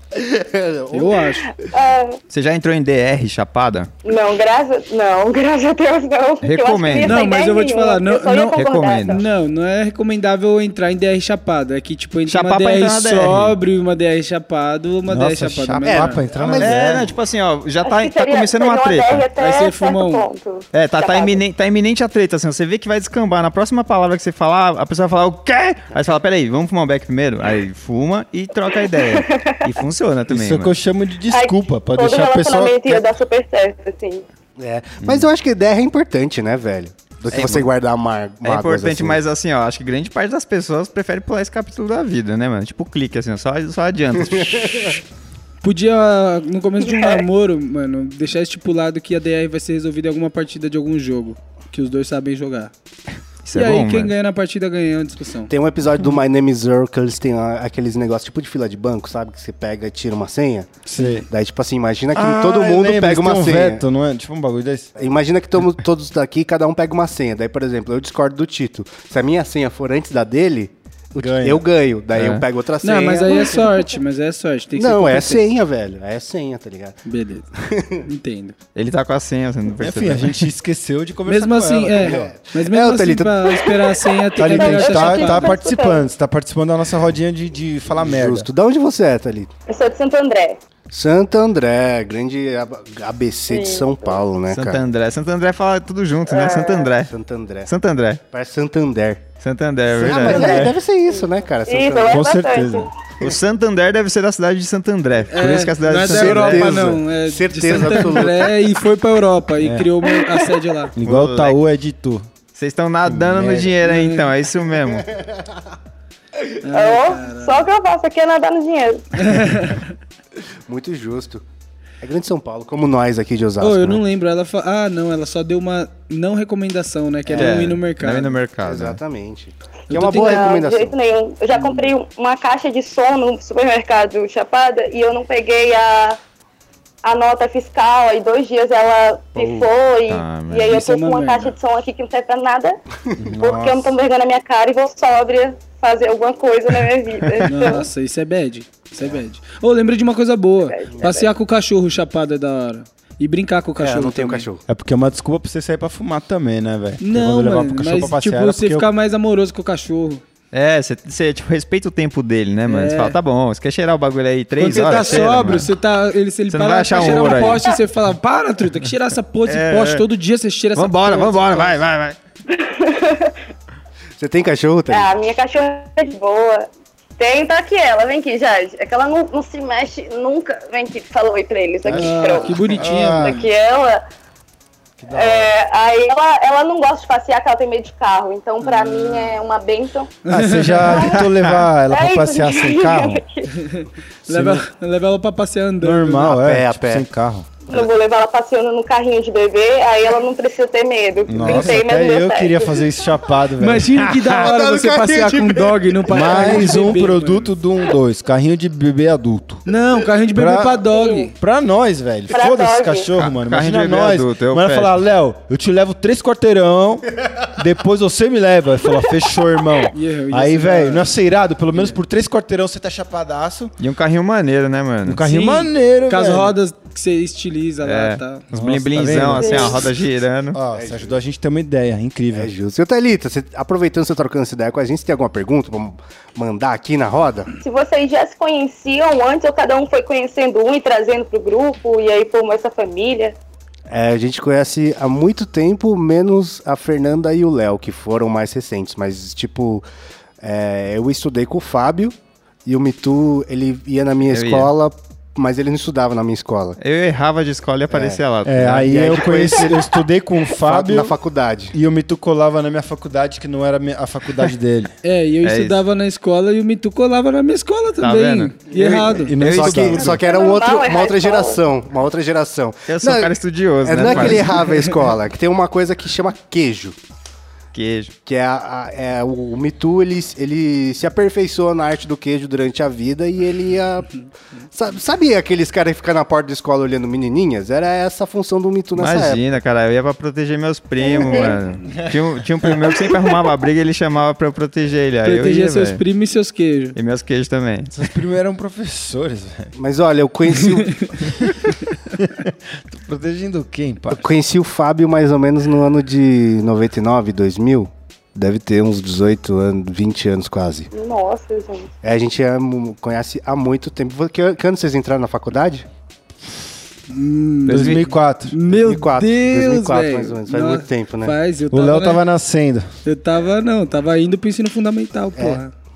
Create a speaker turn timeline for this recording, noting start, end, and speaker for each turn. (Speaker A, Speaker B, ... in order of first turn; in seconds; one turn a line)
Speaker A: 0.1-1.1
Speaker B: 0.9-1.5
Speaker C: 1.7-2.2
Speaker D: 2.3-3.9
Speaker C: 4.0-9.2
Speaker D: 6.4-7.2
Speaker B: 7.0-16.2
Speaker D: 8.6-9.2
Speaker D: 12.3-13.6
Speaker E: 15.1-17.1
Speaker A: 15.9-16.8
Speaker D: 16.6-19.3
Speaker C: 17.8-21.4
Speaker B: 19.4-20.3
Speaker D: 20.7-30.7
Speaker C: 28.9-29.7
Speaker E: 30.3-33.1
Speaker C: 31.3-34.2
Speaker A: 34.6-39.2
Speaker E: 35.0-35.3
Speaker D: 37.3-37.7
Speaker D: 38.4-45.0
Speaker B: 45.6-52.7
Speaker C: 46.9-47.2
Speaker D: 53.4-54.1
Speaker B: 53.5-55.5
Speaker A: 55.5-63.8
Speaker E: 60.9-61.3
Speaker E: 62.1-65.0
Speaker A: 65.0-73.7
Speaker E: 71.2-71.6
Speaker D: 72.1-72.5
Speaker B: 72.8-75.5
Speaker A: 74.8-77.0
Speaker B: 77.0-77.5
Speaker A: 77.5-78.0
Speaker B: 78.0-78.6
Speaker D: 78.8-80.4
Speaker E: 79.8-82.3
Speaker B: 81.3-85.5
Speaker A: 82.0-83.5
Speaker C: 83.5-86.1
Speaker E: 84.4-88.5
Speaker A: 88.0-89.5
Speaker C: 89.7-90.6
Speaker A: 90.9-94.8
Speaker C: 93.5-94.2
Speaker D: 94.5-97.1
Speaker C: 96.3-96.9
Speaker A: 97.1-97.7
Speaker D: 97.7-98.2
Speaker A: 98.3-99.2
Speaker D: 99.4-100.7
Speaker A: 99.9-102.3
Speaker E: 100.0-100.7
Speaker C: 100.2-102.9
Speaker E: 102.1-102.9
Speaker D: 103.2-106.8
Speaker B: 105.3-110.9
Speaker A: 106.0-108.6
Speaker E: 109.6-109.9
Speaker C: 110.1-110.5
Speaker E: 111.0-112.3
Speaker D: 111.0-111.6
Speaker D: 112.5-115.1
Speaker E: 113.1-113.7
Speaker B: 113.8-114.3
Speaker A: 115.2-115.4
Speaker B: 116.6-117.7
Speaker C: 116.7-119.0
Speaker B: 119.2-120.0
Speaker A: 120.7-121.4
Speaker A: 122.0-124.0
Speaker B: 123.6-128.4
Speaker A: 127.3-127.6
Speaker D: 127.3-129.0
Speaker A: 128.6-131.0
Speaker B: 129.9-130.6
Speaker C: 130.0-136.2
Speaker B: 131.5-131.9
Speaker C: 137.0-142.8
Speaker D: 139.3-140.8
Speaker B: 140.7-141.6
Speaker E: 143.2-143.9
Speaker C: 143.4-147.9
Speaker B: 147.4-154.5
Speaker C: 150.7-151.1
Speaker A: 150.9-151.3
Speaker A: 153.8-154.6
Speaker E: 154.7-158.9
Speaker B: 157.0-160.2
Speaker D: 160.5-165.7
Speaker B: 162.7-163.2
Speaker B: 164.6-171.8
Speaker D: 166.5-167.6
Speaker C: 167.1-167.8
Speaker D: 169.5-170.0
Speaker D: 170.8-172.2
Speaker C: 172.5-173.4
Speaker A: 174.2-175.1
Speaker C: 174.9-184.0
Speaker B: 181.9-183.4
Speaker E: 182.8-183.4
Speaker E: 185.0-185.5
Speaker C: 185.1-190.2
Speaker B: 188.6-189.3
Speaker B: 190.3-191.2
Speaker E: 190.3-193.2
Speaker C: 190.9-191.3
Speaker C: 191.9-193.5
Speaker B: 193.5-196.3
Speaker E: 194.3-194.6
Speaker E: 195.8-197.6
Speaker A: 196.2-197.1
Speaker C: 197.7-202.9
Speaker E: 201.3-204.3
Speaker B: 201.4-201.7
Speaker B: 203.6-207.5
Speaker A: 204.3-207.0
Speaker E: 206.1-209.6
Speaker B: 209.7-211.3
Speaker E: 210.3-210.8
Speaker C: 210.9-211.3
Speaker E: 211.4-223.7
Speaker C: 212.3-213.1
Speaker D: 213.2-214.9
Speaker B: 219.9-221.1
Speaker D: 223.8-225.2
Speaker E: 225.1-226.6
Speaker B: 225.2-228.4
Speaker D: 227.8-230.6
Speaker E: 228.5-229.9
Speaker C: 229.4-229.9
Speaker E: 230.5-232.5
Speaker A: 230.7-231.2
Speaker A: 232.3-237.5
Speaker C: 237.6-243.3
Speaker A: 243.9-249.8
Speaker A: 250.4-256.8
Speaker D: 254.3-254.7
Speaker D: 256.8-258.9
Speaker A: 257.9-258.2
Speaker E: 258.4-261.1
Speaker A: 258.8-260.0
Speaker A: 260.6-261.8
Speaker E: 261.7-264.9
Speaker B: 265.0-269.4
Speaker D: 265.4-265.8
Speaker D: 268.0-270.2
Speaker E: 268.8-270.2
Speaker A: 269.4-277.0
Speaker C: 270.1-271.6
Speaker D: 272.9-274.6
Speaker B: 274.1-274.3
Speaker D: 277.7-278.1
Speaker A: 278.3-289.4
Speaker D: 289.0-296.0
Speaker C: 291.0-291.6
Speaker E: 291.9-292.8
Speaker B: 295.2-297.0
Speaker D: 296.9-297.9
Speaker E: 297.9-299.7
Speaker A: 299.8-301.2
Speaker B: 300.9-301.1
Speaker E: 301.2-304.3
Speaker A: 304.1-310.9
Speaker C: 310.9-311.9
Speaker A: 312.0-315.9
Speaker B: 317.1-322.2
Speaker D: 317.7-318.1
Speaker E: 317.7-318.6
Speaker A: 318.7-321.4
Speaker E: 321.7-322.9
Speaker B: 323.1-325.7
Speaker A: 325.4-325.6